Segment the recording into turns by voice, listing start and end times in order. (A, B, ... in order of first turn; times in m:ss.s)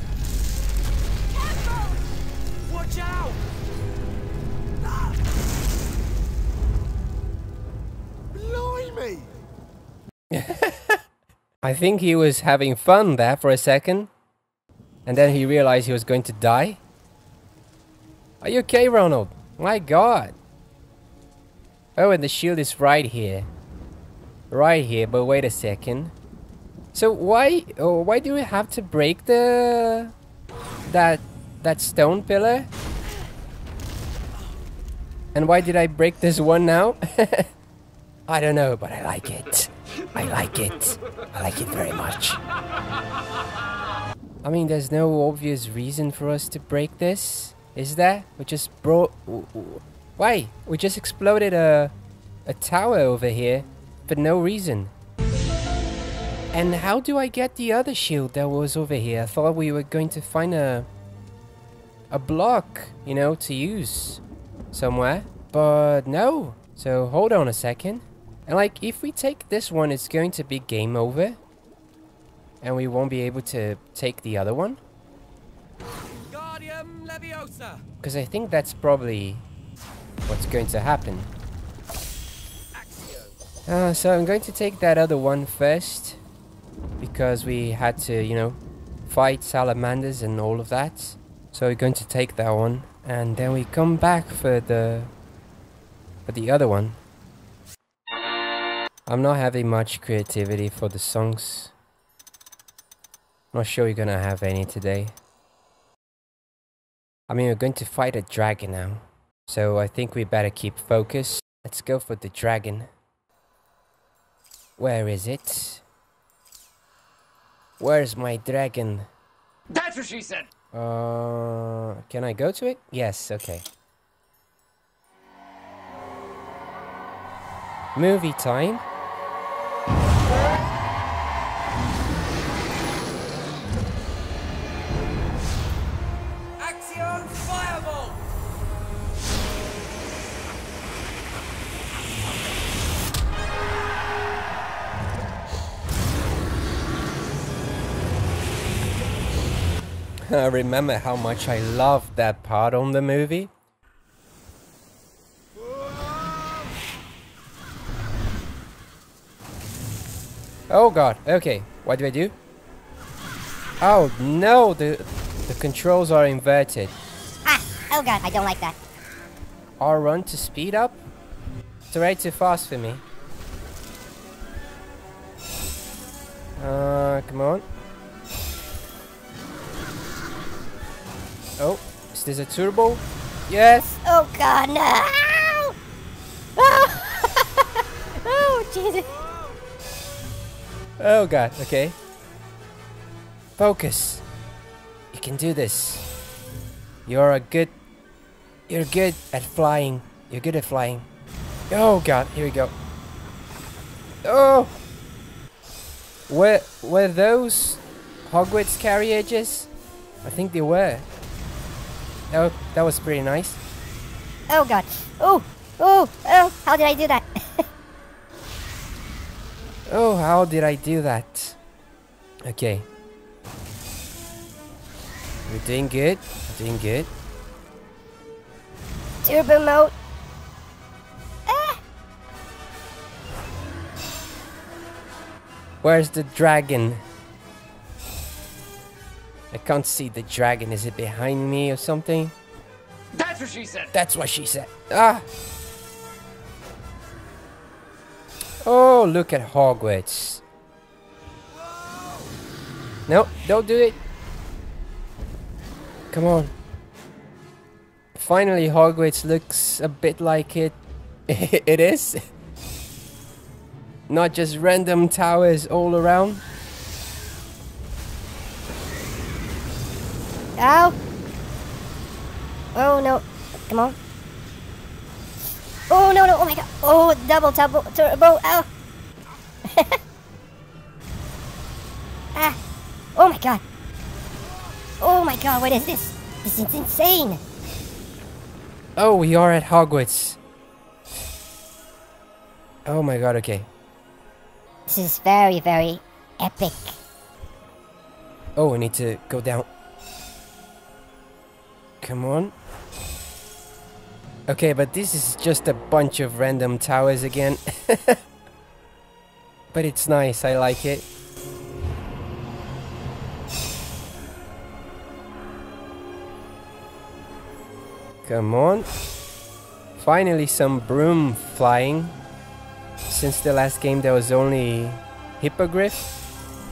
0:01.3-0:02.0 A
0:02.6-0:03.4 A
0:04.8-0:05.2 A
0:08.3-0:09.3 A
0:10.3-0:11.0 B
0:11.6-0:14.1 B
0:15.0-0:16.8 B
0:18.4-0:20.3 B
0:22.0-0:23.5 B
0:24.5-0:26.1 B
0:26.9-0:30.1 B
0:30.8-0:32.7 B
0:35.3-0:37.5 B
0:38.3-0:42.4 B
0:44.4-0:51.9 B
0:52.5-0:54.9 B
0:56.5-1:00.9 B
1:02.1-1:11.4 B
1:12.6-1:14.8 B
1:16.3-1:17.8 C
1:18.0-1:19.4 B
1:20.3-1:21.3 B
1:22.7-1:23.3 C
1:23.7-1:26.2 B
1:27.0-1:35.1 B
1:36.2-1:37.0 B
1:39.0-1:41.7 B
1:43.5-1:45.2 B
1:47.3-1:52.9 B
1:54.8-1:55.8 B
1:57.8-1:59.1 B
1:59.7-2:00.5 C
2:00.7-2:03.6 B
2:07.9-2:08.8 B
2:16.6-2:18.2 C
2:30.2-2:33.5 B
2:40.7-2:42.3 B
2:43.8-2:47.0 B
2:47.4-2:48.8 D
2:49.8-2:51.0 B
2:51.9-2:53.0 B
2:56.6-2:57.6 B
3:01.6-3:04.0 B
3:04.0-3:05.7 D
3:06.6-3:07.7 D
3:08.2-3:09.1 D
3:11.0-3:12.0 B
3:13.6-3:14.2 B
3:15.1-3:16.1 B
3:17.0-3:17.7 B
3:18.7-3:21.1 B
3:21.7-3:22.7 B
3:24.2-3:24.8 B
3:26.3-3:29.7 B
3:30.2-3:31.1 B
3:32.3-3:33.6 B
3:34.5-3:37.6 D
3:39.9-3:41.6 B
3:42.4-3:42.9 B
3:45.5-3:47.1 B
3:49.2-3:49.9 D
3:51.5-3:51.8 D
3:55.8-3:57.0 B
3:59.5-4:02.3 B
4:03.1-4:03.9 C
4:03.9-4:05.3 B
4:08.6-4:10.4 B
4:13.1-4:14.0 B
4:16.1-4:16.5 B
4:18.1-4:22.2 B
4:24.1-4:26.4 B
4:30.6-4:31.0 D
4:32.7-4:34.0 D
4:35.9-4:38.7 D
4:39.7-4:40.0 D
4:43.2-4:43.6 D
4:45.0-4:47.4 D
4:49.0-4:50.4 B
4:52.8-4:53.7 B
4:54.9-4:57.0 D
4:58.6-4:59.7 B
5:02.0-5:02.5 B
5:04.5-5:08.2 B
5:09.7-5:11.0 B
5:18.2-5:18.9 B
5:20.0-5:22.2 B
5:23.1-5:26.1 B